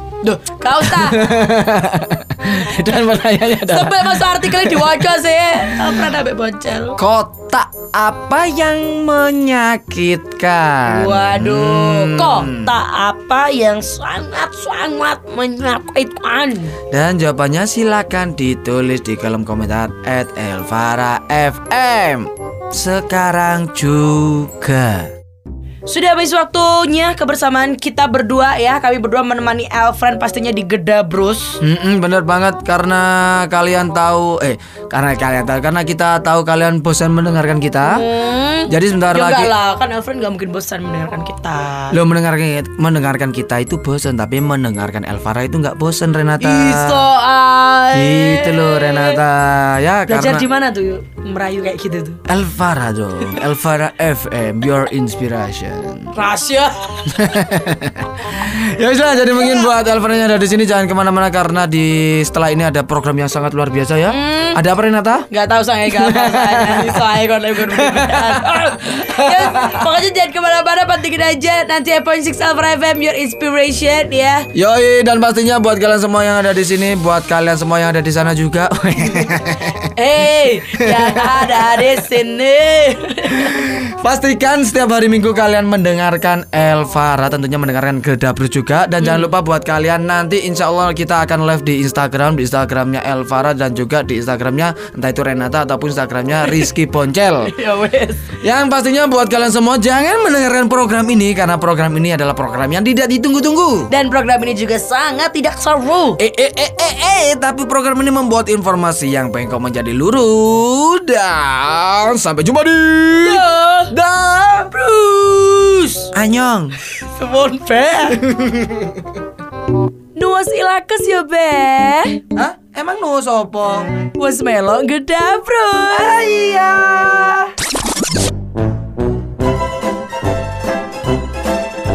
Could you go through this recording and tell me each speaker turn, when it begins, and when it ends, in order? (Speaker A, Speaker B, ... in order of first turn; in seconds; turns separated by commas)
Speaker A: 0.2-1.3, Speaker B: 0.8-5.0, Speaker A: 3.6-7.0, Speaker B: 5.6-6.0, Speaker B: 7.0-12.7, Speaker A: 10.8-16.8, Speaker B: 16.9-25.1, Speaker A: 25.9-31.6, Speaker B: 31.6-38.0, Speaker A: 37.8-42.0, Speaker B: 38.7-39.5, Speaker B: 41.9-47.1, Speaker A: 46.4-49.2, Speaker B: 47.9-50.5, Speaker A: 50.1-52.2, Speaker B: 52.3-56.1, Speaker A: 56.1-57.3, Speaker B: 57.1-65.2, Speaker A: 64.1-64.6, Speaker A: 65.3-74.5, Speaker B: 65.9-69.9, Speaker B: 74.5-79.9, Speaker A: 79.0-83.5, Speaker B: 80.9-81.9, Speaker B: 83.4-97.5, Speaker A: 89.0-89.3, Speaker A: 97.4-98.3, Speaker B: 98.4-103.9, Speaker A: 103.9-106.2, Speaker B: 106.2-115.2, Speaker A: 113.2-113.9, Speaker A: 115.2-116.0, Speaker B: 116.1-116.8, Speaker A: 117.0-118.2, Speaker B: 118.2-118.9, Speaker A: 120.2-122.2, Speaker B: 122.3-123.9, Speaker A: 124.2-126.2, Speaker B: 125.9-127.5